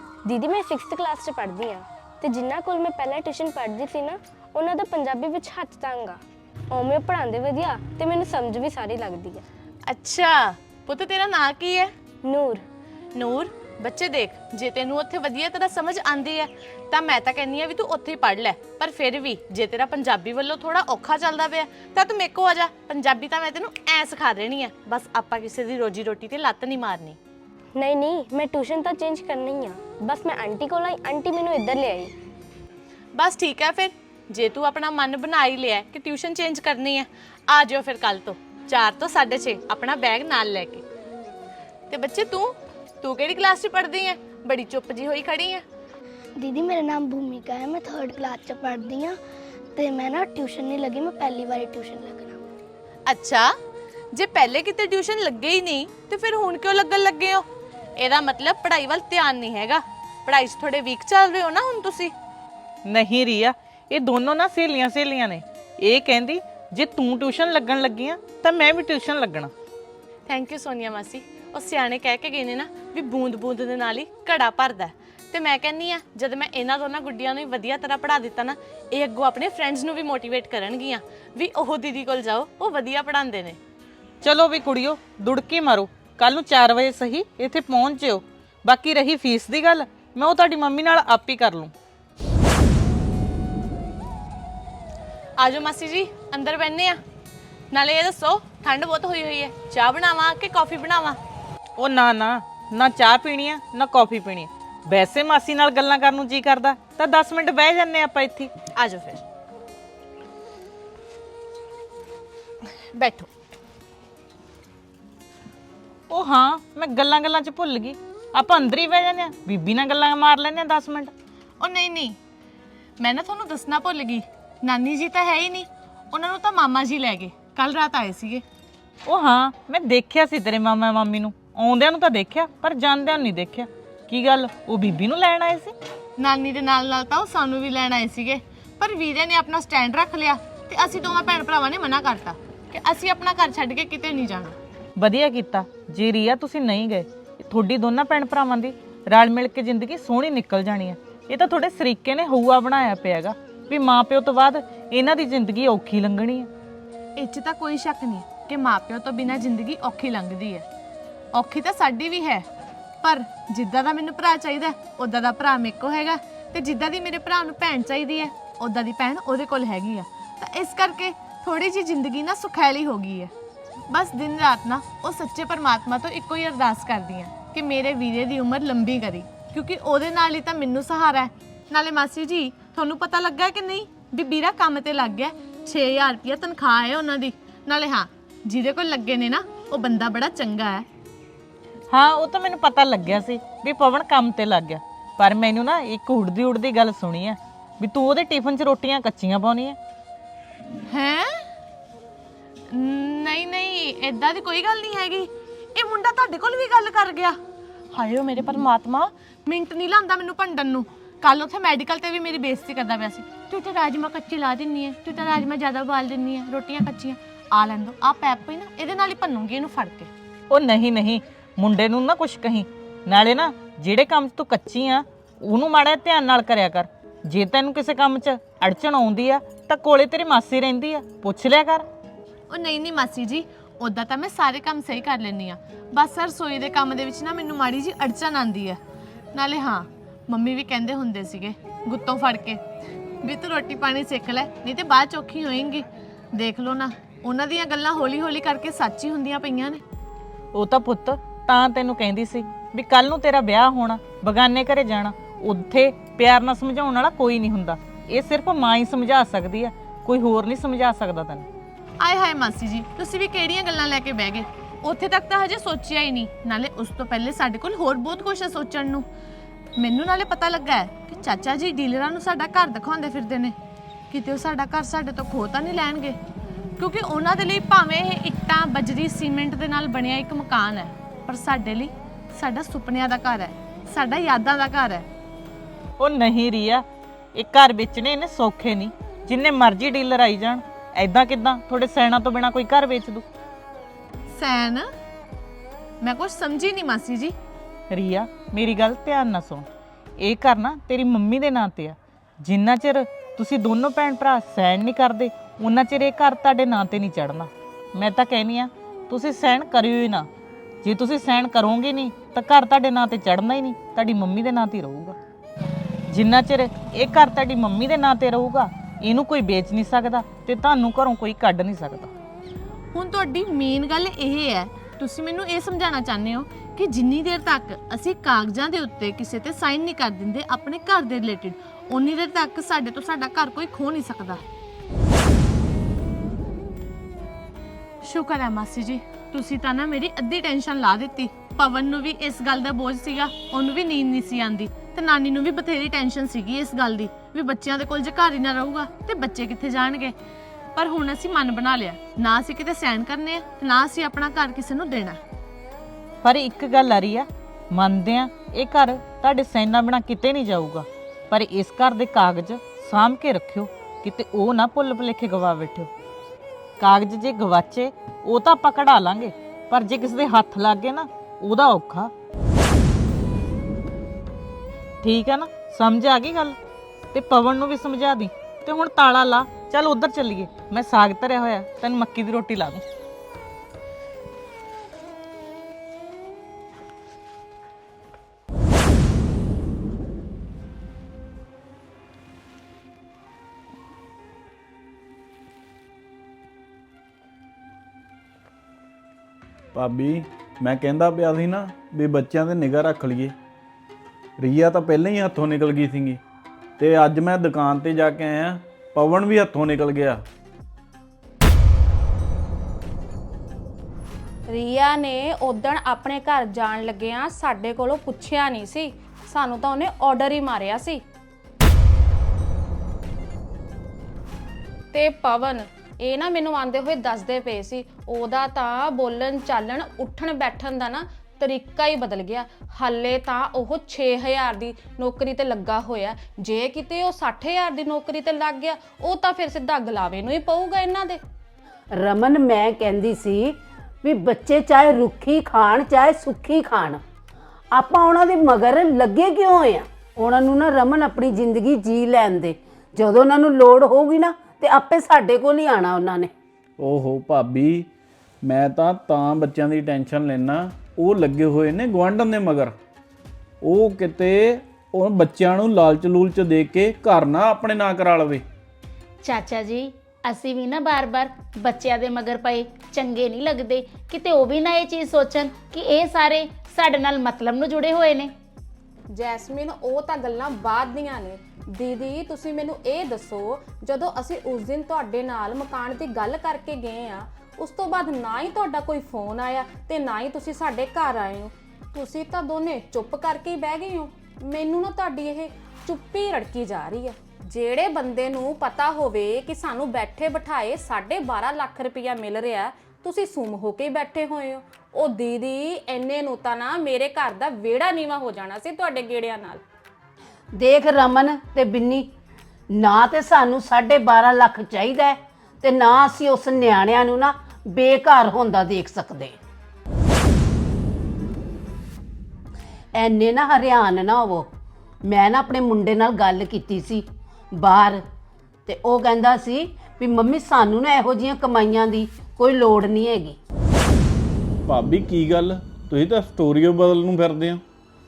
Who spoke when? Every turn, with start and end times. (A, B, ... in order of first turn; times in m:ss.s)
0:00.3-0:06.2 A
0:06.7-0:09.4 A
0:09.9-0:11.9 B
0:12.2-0:12.6 A
0:13.2-0:27.2 B
0:27.8-0:32.1 A
0:33.2-0:40.8 B
0:41.9-0:45.6 B
0:46.4-0:49.2 C
0:49.8-0:52.4 C
0:53.1-0:53.5 B
0:54.1-0:57.4 B
0:58.0-1:02.1 B
1:02.8-1:09.5 D
1:10.3-1:23.6 B
1:24.2-1:31.7 D
1:35.4-1:37.0 B
1:37.7-1:41.2 B
1:41.8-1:48.5 D
1:48.8-1:49.2 B
1:52.6-1:53.3 B
1:56.1-2:01.1 D
2:01.6-2:02.2 B
2:03.0-2:08.4 B
2:09.0-2:15.7 D
2:16.2-2:24.6 B
2:25.0-2:36.5 D
2:37.2-2:40.6 B
2:41.3-2:42.5 B
2:43.0-2:53.3 B
2:53.9-3:10.9 B
3:11.9-3:19.8 D
3:20.9-3:21.4 B
3:22.7-3:27.4 B
3:27.9-3:40.1 B
3:40.5-3:51.8 D
3:52.5-3:58.8 B
3:59.3-4:02.6 B
4:03.2-4:09.8 B
4:10.5-4:21.5 D
4:22.0-4:29.0 B
4:29.8-4:33.6 B
4:34.1-4:36.2 B
4:36.8-4:45.1 B
4:46.0-4:53.2 D
4:54.3-4:54.9 B
4:56.0-4:57.3 B
4:57.9-4:59.7 D
5:00.2-5:10.3 D
5:10.8-5:15.2 D
5:16.1-5:22.1 D
5:22.9-5:34.4 B
5:38.0-5:50.1 B
5:50.8-5:55.2 B
5:56.2-6:05.9 D
6:06.8-6:12.1 D
6:15.0-6:16.6 D
6:17.1-6:22.8 D
6:39.7-6:43.3 E
6:44.4-6:46.2 E
6:46.8-6:50.2 E
6:54.5-7:01.0 F
7:04.9-7:21.2 F
7:22.0-7:27.0 G
7:27.7-7:36.3 G
7:36.8-7:37.9 E
7:38.4-7:42.8 E
7:43.6-7:48.4 E
7:49.2-7:58.3 H
7:59.1-8:29.6 F
8:30.6-8:32.1 G
8:32.7-8:39.4 G
8:43.0-8:44.5 G
8:45.0-8:48.0 G
8:48.7-8:53.4 G
8:54.7-8:57.6 E